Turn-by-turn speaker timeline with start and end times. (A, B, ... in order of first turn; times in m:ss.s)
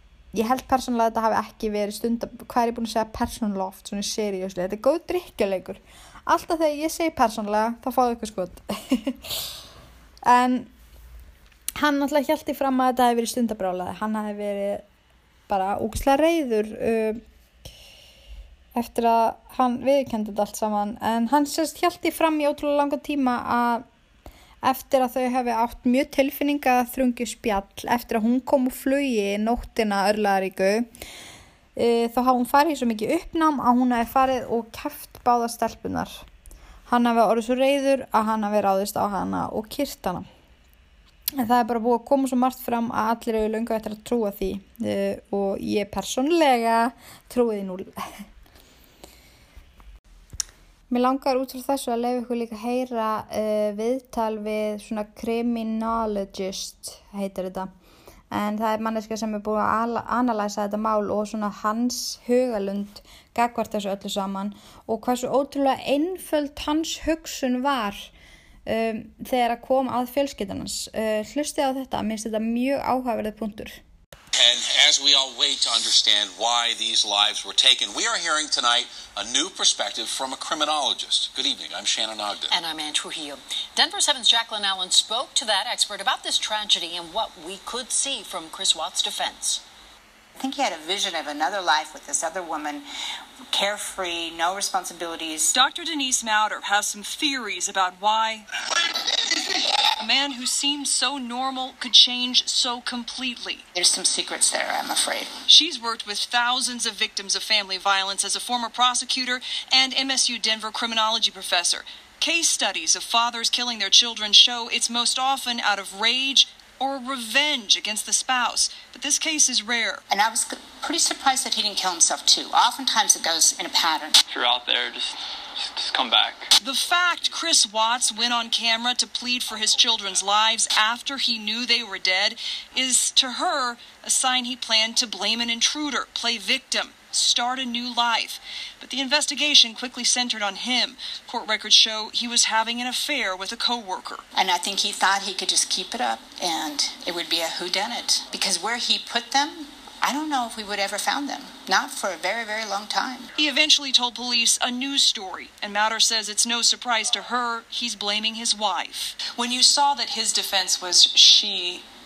0:00.3-0:09.4 A
0:10.3-0:10.7 A
0:11.8-0:14.8 A
0:15.5-0:17.2 A
0:18.8-0:23.8 A
0:24.6-0:30.9 A
0:31.8-0:36.2 A
0:36.9-0:40.2 A
0:41.4-0:48.2 A
0:50.9-0:57.7 A
0:58.3-1:08.1 A
1:08.7-1:13.8 A
1:14.3-1:22.5 B
1:22.5-1:29.6 C
1:30.4-1:32.9 D
1:33.5-1:35.5 D
1:35.5-1:38.5 E
1:40.0-1:43.7 E
1:43.7-1:45.3 D
1:45.5-2:00.0 E
2:00.1-2:04.2 D
2:04.3-2:06.5 F
2:06.6-2:24.2 E
2:24.4-2:33.3 D
2:33.4-2:39.2 E
2:39.2-2:41.9 G